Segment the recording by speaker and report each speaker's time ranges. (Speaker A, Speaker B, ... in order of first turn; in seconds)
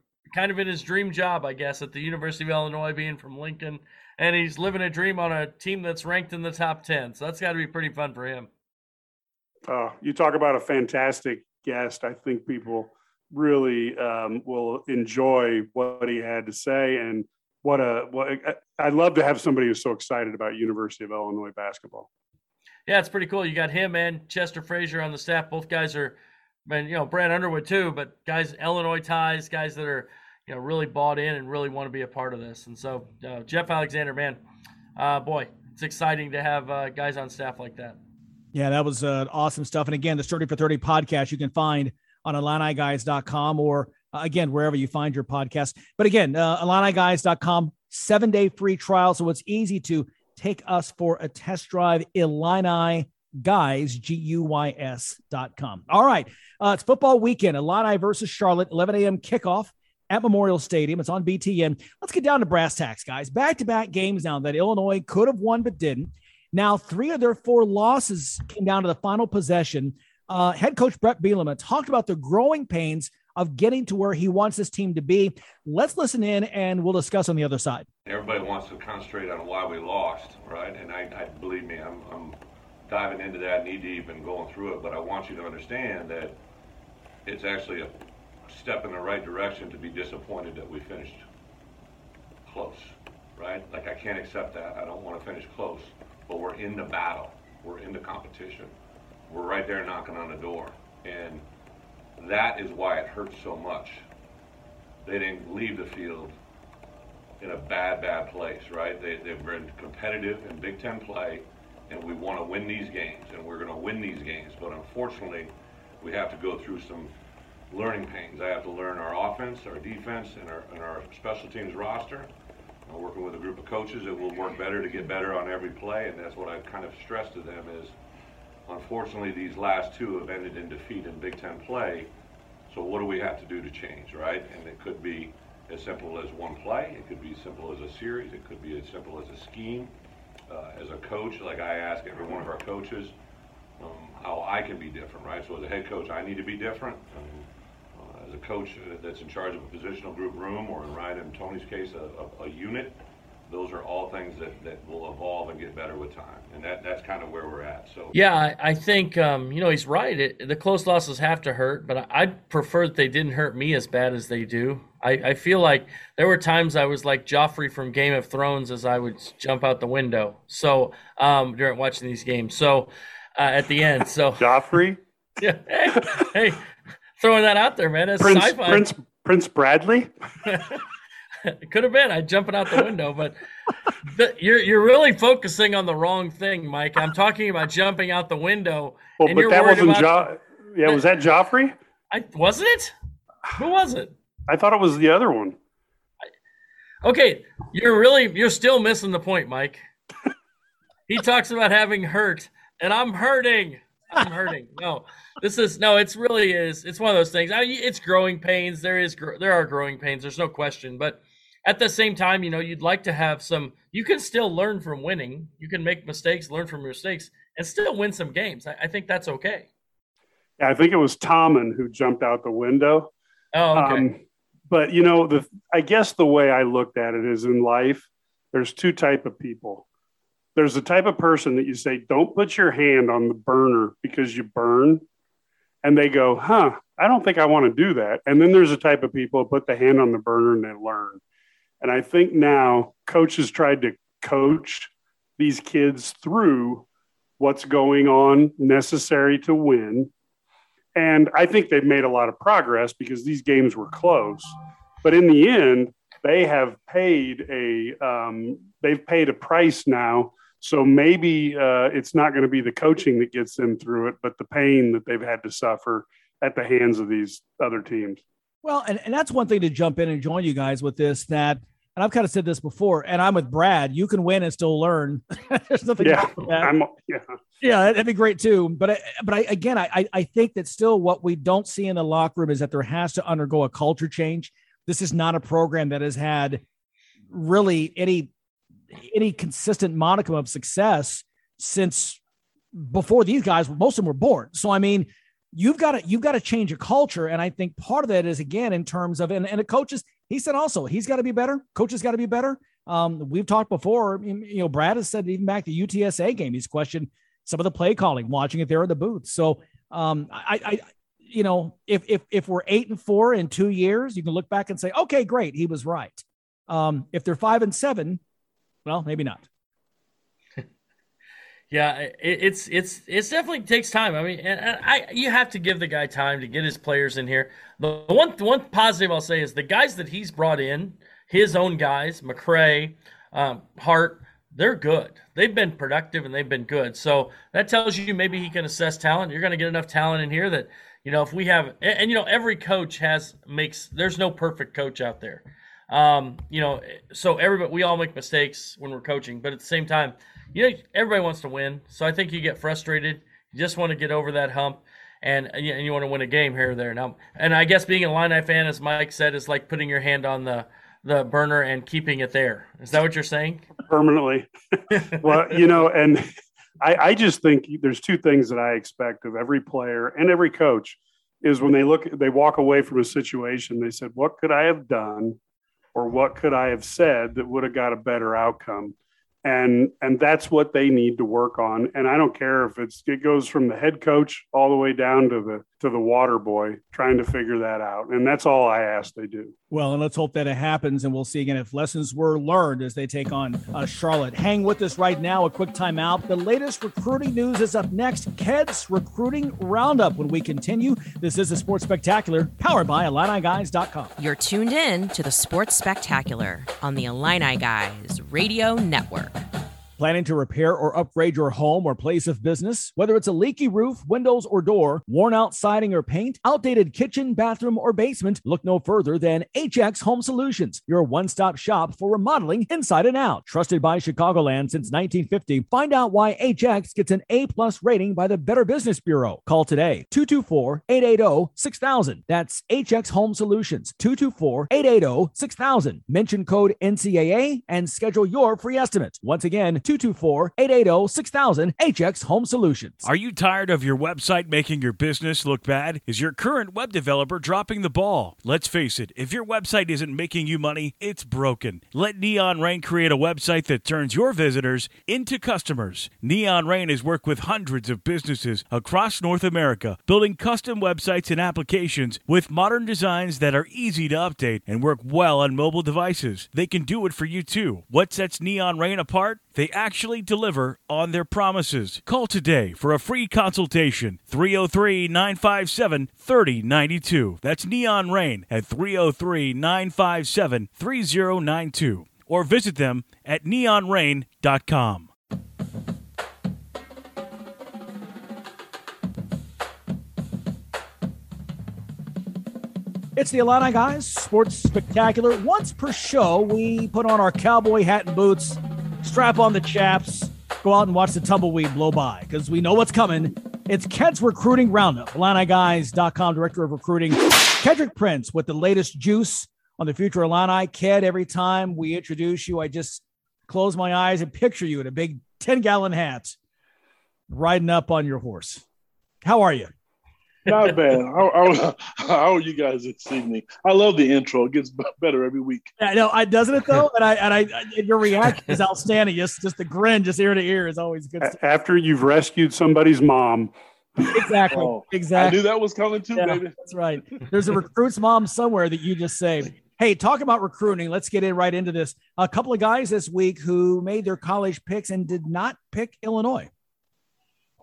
Speaker A: 0.3-8.5, 22.9-34.4, 35.0-38.0, 158.1-174.7, 175.4-176.6, 177.2-178.9, 180.4-180.8, 181.4-183.4, 184.1-190.3, 190.8-191.2, 192.1-192.9, 193.6-194.1, 197.0-199.8, 201.1-219.7, 223.5-224.1, 321.7-363.7
Speaker B: 9.7-22.1, 174.4-175.0, 178.2-180.1, 189.2-191.7, 194.5-195.6, 220.6-223.1, 223.8-229.8, 230.6-235.0, 235.8-241.2, 241.8-246.8, 247.4-250.1, 250.9-268.2, 276.0-277.3, 363.9-366.2, 366.8-375.4, 375.9-389.5, 531.2-533.5
Speaker C: 38.5-77.9, 268.6-276.7, 277.6-286.6, 287.3-288.3, 288.9-292.2, 292.7-318.2, 318.8-319.4, 389.7-404.1, 410.0-443.1, 493.1-516.3, 517.3-518.6, 519.2-519.7, 525.8-531.4, 534.1-535.4, 536.2-546.5
Speaker D: 78.0-86.4, 87.2-87.9, 88.5-91.2, 92.5-98.7, 99.3-101.4, 102.2-104.0, 105.0-106.3, 107.4-117.1, 117.7-122.3, 122.8-128.0, 128.7-132.1, 132.7-139.9, 140.5-143.1, 143.8-153.0, 153.5-158.1
Speaker E: 404.2-409.4
Speaker F: 443.0-485.1
Speaker G: 520.5-525.7, 534.5-536.5